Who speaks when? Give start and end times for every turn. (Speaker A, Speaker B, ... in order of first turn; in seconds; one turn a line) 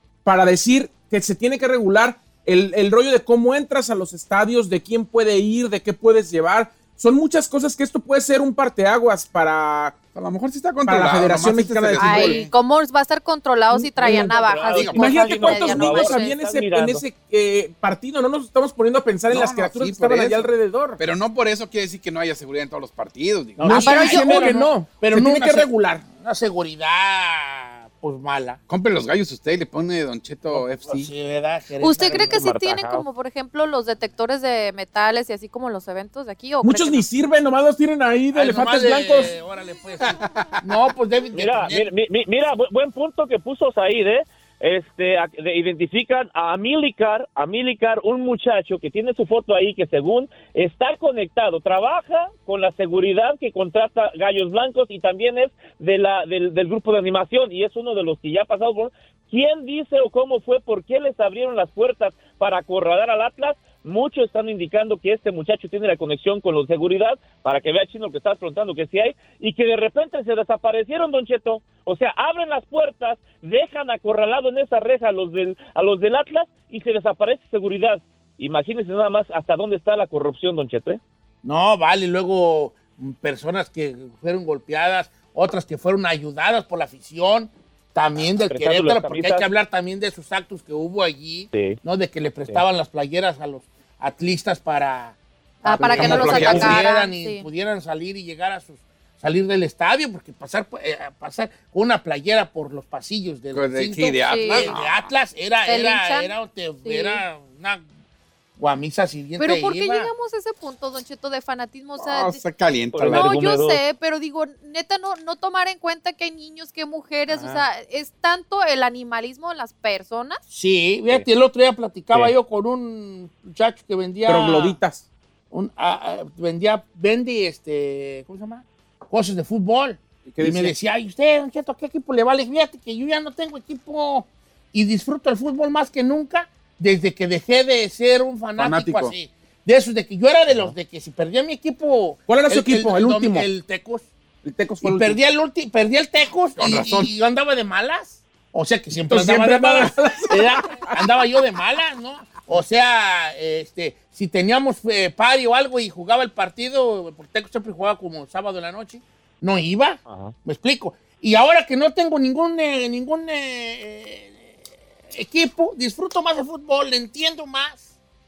Speaker A: 0.2-10.0
Speaker B: 10.1-12.5
Speaker A: 10.8-12.4
Speaker C: 12.0-16.3
Speaker A: 13.7-14.3
Speaker D: 14.0-17.0
Speaker A: 14.9-21.0
Speaker B: 19.3-24.1
Speaker E: 23.6-28.6
Speaker A: 23.6-25.7
Speaker C: 23.7-24.7
Speaker B: 28.7-31.1
Speaker E: 30.5-32.4
Speaker C: 31.8-37.0
Speaker D: 32.2-33.0
Speaker A: 36.6-39.3
Speaker E: 38.3-41.9
Speaker D: 41.3-81.0
Speaker E: 81.4-95.2
Speaker D: 88.4-89.5
Speaker D: 91.5-91.8
Speaker C: 95.6-97.4
Speaker E: 95.7-107.8
Speaker B: 95.7-96.8
Speaker B: 103.5-105.0
Speaker C: 104.3-104.7
Speaker C: 105.6-106.3
Speaker C: 106.8-107.2
Speaker E: 108.6-110.1
Speaker C: 109.4-112.4
Speaker B: 112.0-113.4
Speaker D: 112.9-113.8
Speaker C: 113.0-120.4
Speaker E: 117.3-117.6
Speaker E: 120.5-124.8
Speaker A: 124.2-125.0
Speaker E: 125.5-144.1
Speaker A: 130.2-130.7
Speaker B: 138.6-139.1
Speaker A: 142.3-143.5
Speaker A: 144.4-145.2
Speaker E: 144.8-164.6
Speaker B: 146.6-147.1
Speaker A: 149.1-151.0
Speaker D: 160.1-160.3
Speaker E: 165.1-167.9